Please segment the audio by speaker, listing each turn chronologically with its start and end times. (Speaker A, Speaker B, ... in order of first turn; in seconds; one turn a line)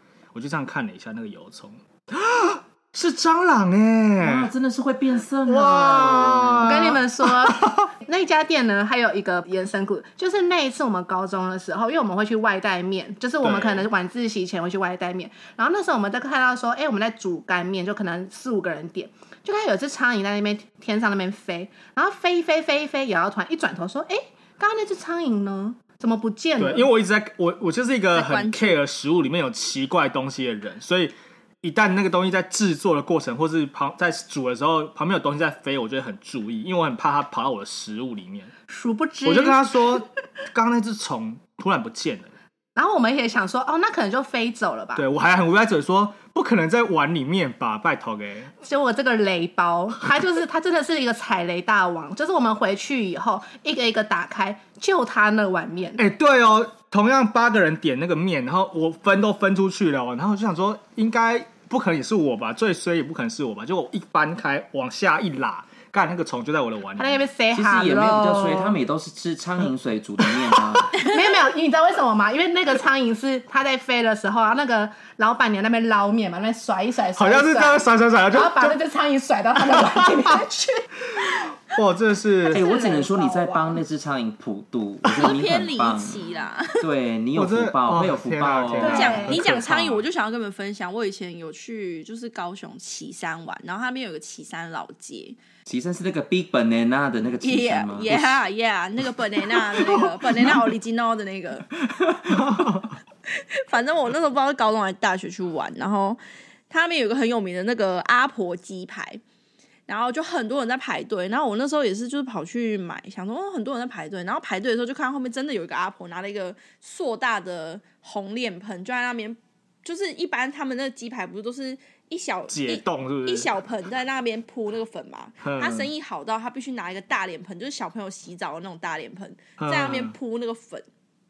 Speaker A: 0.3-4.5
Speaker B: 4.2-7.0
Speaker A: 5.5-7.9
Speaker C: 6.6-26.9
Speaker A: 13.4-13.9
Speaker A: 26.6-38.5
Speaker D: 28.1-28.8
Speaker C: 38.7-40.0
Speaker A: 39.2-42.3
Speaker C: 42.8-45.0
Speaker A: 45.0-48.5
Speaker C: 48.6-56.0
Speaker A: 56.0-67.3
Speaker C: 67.0-68.8
Speaker B: 67.5-71.0
Speaker A: 70.2-70.8
Speaker C: 70.9-81.4
Speaker A: 77.2-78.8
Speaker A: 79.6-80.4
Speaker A: 81.1-82.6
Speaker C: 82.4-83.8
Speaker B: 82.5-86.2
Speaker D: 85.2-86.9
Speaker B: 86.8-89.3
Speaker A: 87.3-90.0
Speaker C: 88.8-89.4
Speaker D: 88.8-95.4
Speaker B: 95.7-98.4
Speaker D: 97.4-101.7
Speaker B: 101.9-102.6
Speaker A: 102.4-102.8
Speaker D: 103.3-109.2
Speaker D: 109.9-130.8
Speaker A: 122.5-123.6
Speaker A: 125.4-125.9
Speaker A: 129.6-130.1